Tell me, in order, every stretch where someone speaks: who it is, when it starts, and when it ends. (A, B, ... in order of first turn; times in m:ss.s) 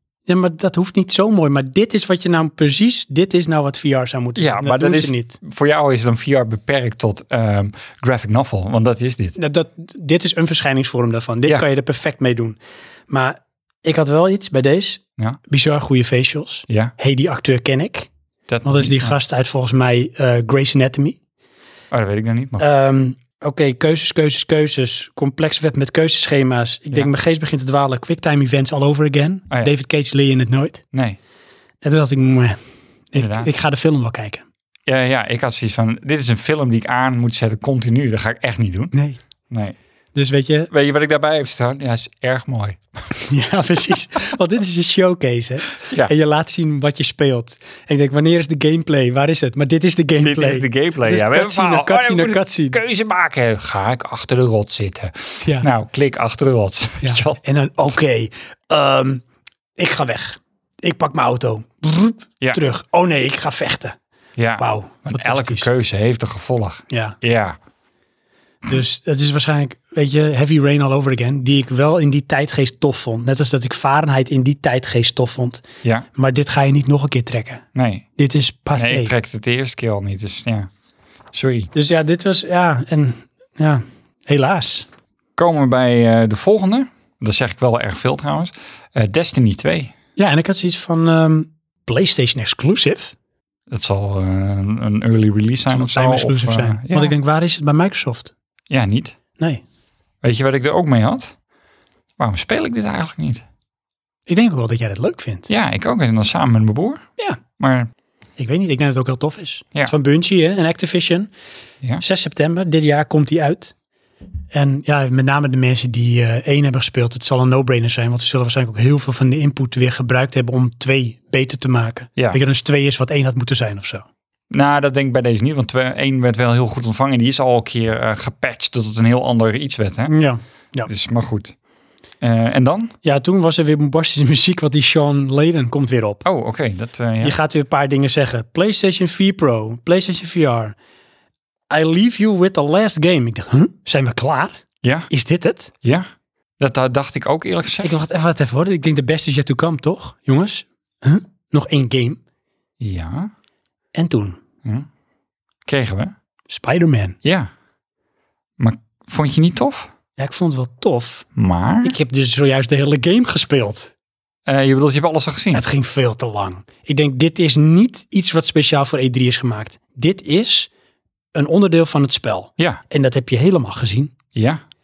0:00.3-0:05.4 A
0:04.4-0:09.4 B
0:09.4-0:12.6 A
0:13.1-0:18.1 A
0:16.7-0:16.9 B
0:18.5-0:19.1 B
0:18.6-0:21.2 A
0:21.9-0:22.6 B
0:22.6-0:30.8 A
0:30.9-0:31.2 B
0:31.8-0:32.6 A
0:33.1-0:34.4 A
0:33.2-0:33.5 B
0:34.9-0:38.9 B
0:38.9-0:39.2 A
0:39.5-0:39.8 B
0:40.1-0:40.7 A
0:40.7-0:43.1 B
0:43.2-0:52.8 A
0:45.8-0:46.1 B
0:50.2-0:57.4 B
0:55.4-0:55.7 A
0:57.0-0:59.2 A
0:59.8-1:04.0 A
1:04.4-1:07.6 B
1:04.6-1:05.7 A
1:06.9-1:07.2 A
1:08.6-1:15.6 A
1:16.1-1:17.6 A
1:17.7-1:18.0 B
1:18.2-1:19.1 A
1:18.7-1:20.7 B
1:21.3-1:21.7 B
1:21.7-1:24.9 A
1:25.4-1:29.9 B
1:30.2-1:33.1 A
1:33.7-1:37.1 B
1:35.7-1:38.3 A
1:38.7-1:39.2 B
1:40.2-1:41.3 B
1:42.2-1:43.4 B
1:44.3-1:45.5 A
1:45.5-1:47.0 B
1:47.6-1:47.9 B
1:48.4-1:51.3 A
1:52.0-1:53.7 A
1:54.5-2:04.0 A
2:04.5-2:10.1 B
2:10.1-2:10.9 A
2:10.9-2:11.5 B
2:12.2-2:12.9 B
2:13.0-2:16.2 A
2:16.2-2:17.4 B
2:17.2-2:20.7 A
2:21.7-2:24.6 A
2:24.8-2:25.1 B
2:25.1-2:25.7 A
2:26.6-2:27.9 B
2:27.8-2:32.2 A
2:32.8-2:33.3 B
2:33.9-2:34.4 A
2:35.6-2:36.1 B
2:36.5-2:37.2 A
2:37.2-2:37.5 B
2:38.6-2:39.9 B
2:40.2-2:41.2 A
2:41.4-2:42.0 B
2:41.8-2:43.9 A
2:44.5-2:45.6 B
2:45.5-2:50.7 A
2:51.3-2:54.1 A
2:54.3-2:54.6 B